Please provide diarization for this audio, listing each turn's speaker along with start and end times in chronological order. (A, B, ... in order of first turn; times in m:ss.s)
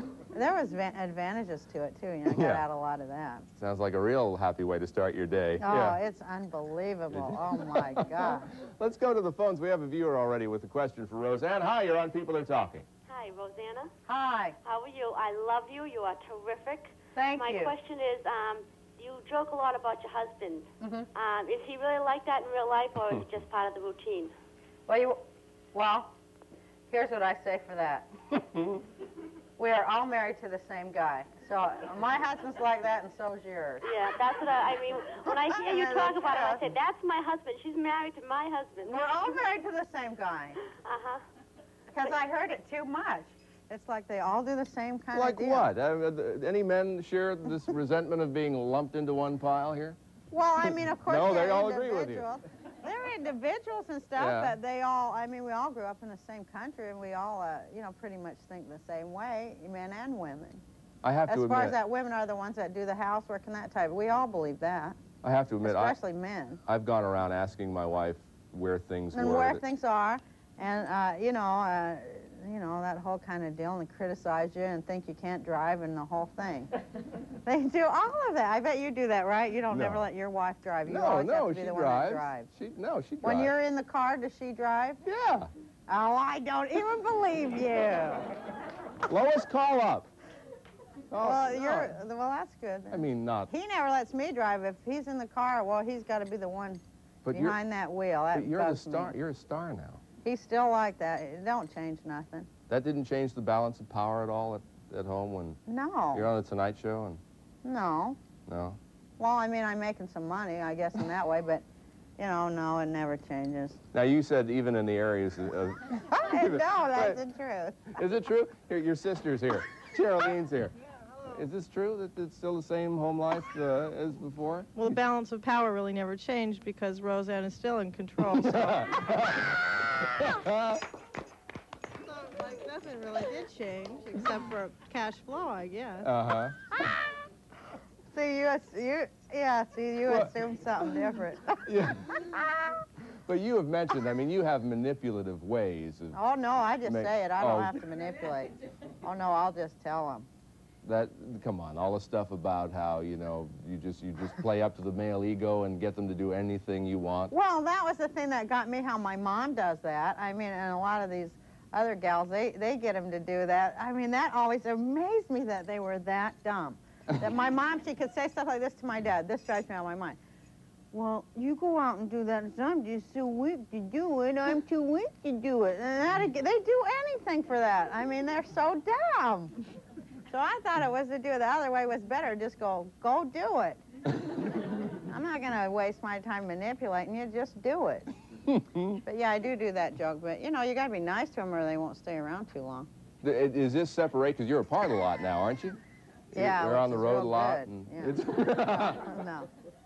0:00.3-0:03.5 A
0:02.3-0:02.6 B
0:03.6-0:06.0 B
0:05.6-0:08.5 A
0:07.1-0:12.9 B
0:13.1-0:13.9 C
0:14.1-0:14.6 A
0:14.6-0:24.3 C
0:17.2-0:17.8 A
0:20.8-0:21.1 A
0:24.9-0:25.2 A
0:25.7-0:26.1 A
0:26.9-0:28.1 A
0:29.6-0:34.0 A
0:33.8-0:39.3 C
0:35.3-0:36.6 A
0:38.8-0:40.6 A
0:40.8-0:41.2 C
0:41.9-0:45.7 A
0:45.1-0:50.0 B
0:50.3-1:00.6 A
0:50.6-0:52.3 B
0:54.2-0:54.6 B
1:01.0-1:01.8 B
1:01.3-1:05.0 A
1:05.2-1:06.0 B
1:05.6-1:06.6 A
1:06.7-1:09.6 B
1:09.1-1:16.7 A
1:17.4-1:22.5 A
1:19.7-1:20.1 B
1:20.9-1:23.5 B
1:23.2-1:25.0 A
1:25.0-1:25.5 B
1:25.9-1:28.3 A
1:29.1-1:30.1 B
1:31.1-1:31.9 B
1:31.2-1:36.8 A
1:32.9-1:33.5 B
1:37.2-1:37.6 B
1:37.3-1:39.2 A
1:38.3-1:40.0 B
1:40.2-1:42.5 A
1:42.7-1:45.6 B
1:45.7-1:46.3 A
1:46.1-1:47.2 B
1:47.6-1:48.2 A
1:48.5-1:48.8 B
1:49.2-1:51.6 A
1:52.2-1:53.8 A
1:53.9-1:57.2 B
1:56.1-1:58.0 A
1:58.0-2:04.8 B
2:04.8-2:08.8 D
2:08.4-2:10.8 B
2:12.1-2:16.1 D
2:16.0-2:16.6 B
2:18.1-2:21.6 A
2:20.1-2:20.4 B
2:21.6-2:22.3 B
2:23.3-2:26.2 B
2:26.1-2:30.3 A
2:26.8-2:27.7 B
2:30.8-2:37.3 B
2:37.3-2:50.2 A
2:50.9-2:59.5 A
3:00.3-3:03.8 A
3:05.0-3:08.1 A
3:08.5-3:09.0 B
3:09.0-3:12.9 A
3:13.2-3:15.8 B
3:16.3-3:19.2 B
3:16.3-3:19.5 A